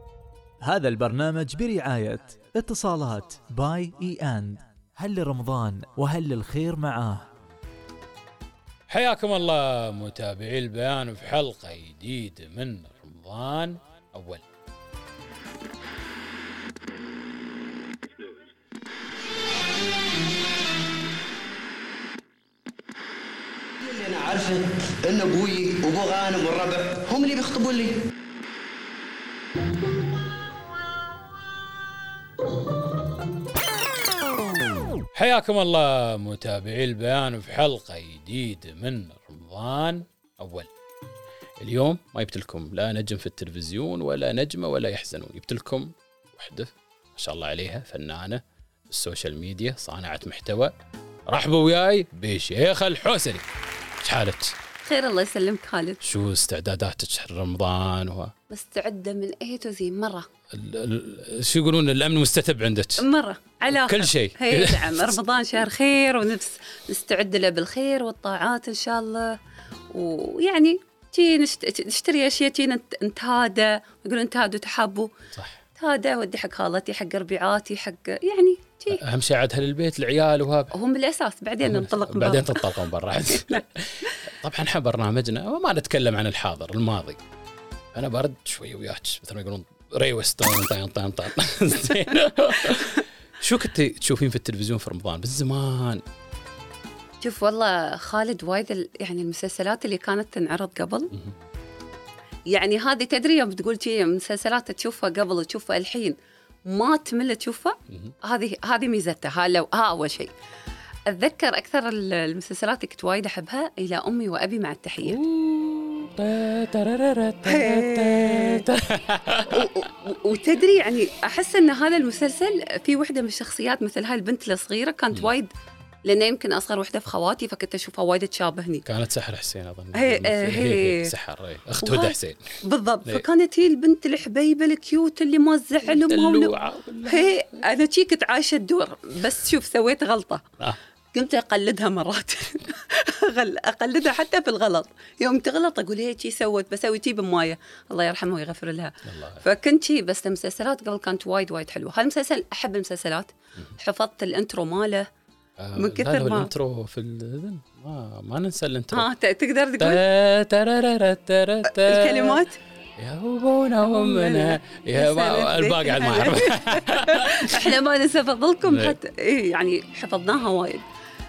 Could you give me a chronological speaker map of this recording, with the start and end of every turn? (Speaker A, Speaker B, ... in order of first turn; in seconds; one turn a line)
Speaker A: 0.6-7.3
Speaker B: 8.9-14.4
Speaker C: 23.8-28.0
Speaker B: 35.1-40.7
Speaker B: 41.6-50.7
Speaker B: 51.3-53.5
Speaker B: 54.0-54.6
Speaker D: 54.8-56.0
Speaker B: 56.0-58.3
Speaker D: 58.5-60.3
Speaker B: 60.5-63.0
Speaker D: 63.0-69.4
Speaker B: 63.7-65.2
Speaker D: 69.9-75.1
Speaker B: 75.3-75.6
Speaker D: 75.8-79.0
Speaker B: 78.9-80.7
Speaker D: 80.7-82.7
Speaker B: 81.6-87.2
Speaker D: 83.4-84.2
Speaker B: 87.9-96.0
Speaker D: 97.2-101.1
Speaker D: 102.5-110.3
Speaker B: 107.9-108.1
Speaker D: 111.1-115.2
Speaker B: 115.0-119.8
Speaker D: 117.5-118.7
Speaker D: 119.5-125.5
Speaker D: 126.0-128.9
Speaker B: 128.9-133.2
Speaker D: 129.9-131.1
Speaker D: 131.8-136.6
Speaker B: 135.8-137.4
Speaker D: 137.1-140.5
Speaker D: 141.1-155.1
Speaker B: 149.1-149.4
Speaker B: 155.6-159.1
Speaker D: 155.8-156.5
Speaker D: 158.9-160.0
Speaker B: 159.8-162.4
Speaker D: 161.7-162.6
Speaker B: 163.0-167.8
Speaker D: 163.8-170.8
Speaker B: 168.7-169.0